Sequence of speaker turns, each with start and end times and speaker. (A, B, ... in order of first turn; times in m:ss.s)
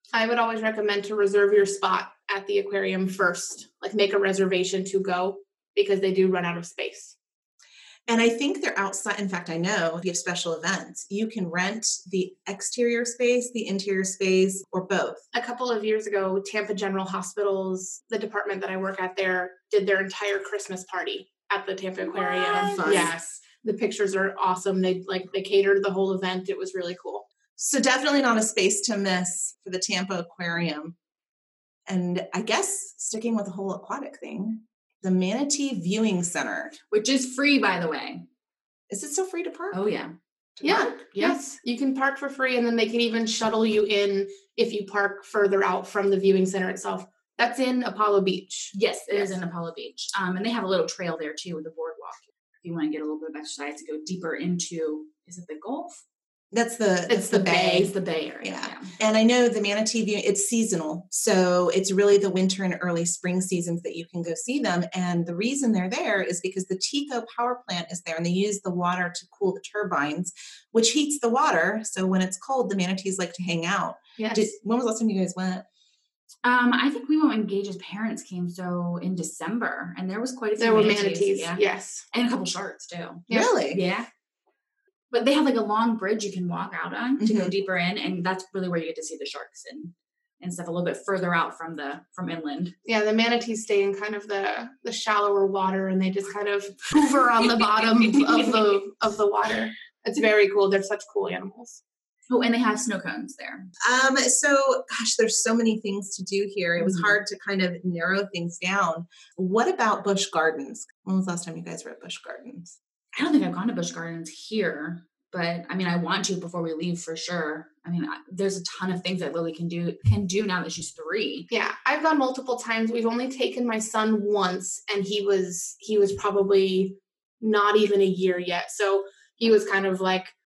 0:00.1-0:07.2 A
0:08.1-0:15.2 B
0:15.3-0:27.3 A
0:22.1-0:23.1 B
0:22.7-0:23.1 C
0:27.6-0:31.0 B
0:31.9-0:36.8 B
0:36.9-0:38.3 C
0:38.9-0:39.8 B
0:39.7-0:40.1 C
0:40.6-0:41.0 B
0:40.6-0:49.4 A
0:48.7-0:56.0 C
0:56.5-0:57.9 B
0:57.1-0:57.9 A
0:57.3-0:58.9 C
0:58.4-1:15.6 B
1:14.2-1:14.6 A
1:16.4-1:24.1 C
1:20.6-1:22.0 A
1:23.3-1:23.8 B
1:25.1-1:32.8 C
1:27.2-1:27.5 B
1:32.9-1:41.8 A
1:37.8-1:38.5 C
1:42.3-1:43.7 C
1:43.8-1:52.8 B
1:46.8-1:47.2 C
1:53.1-2:01.5 C
2:01.5-2:10.3 A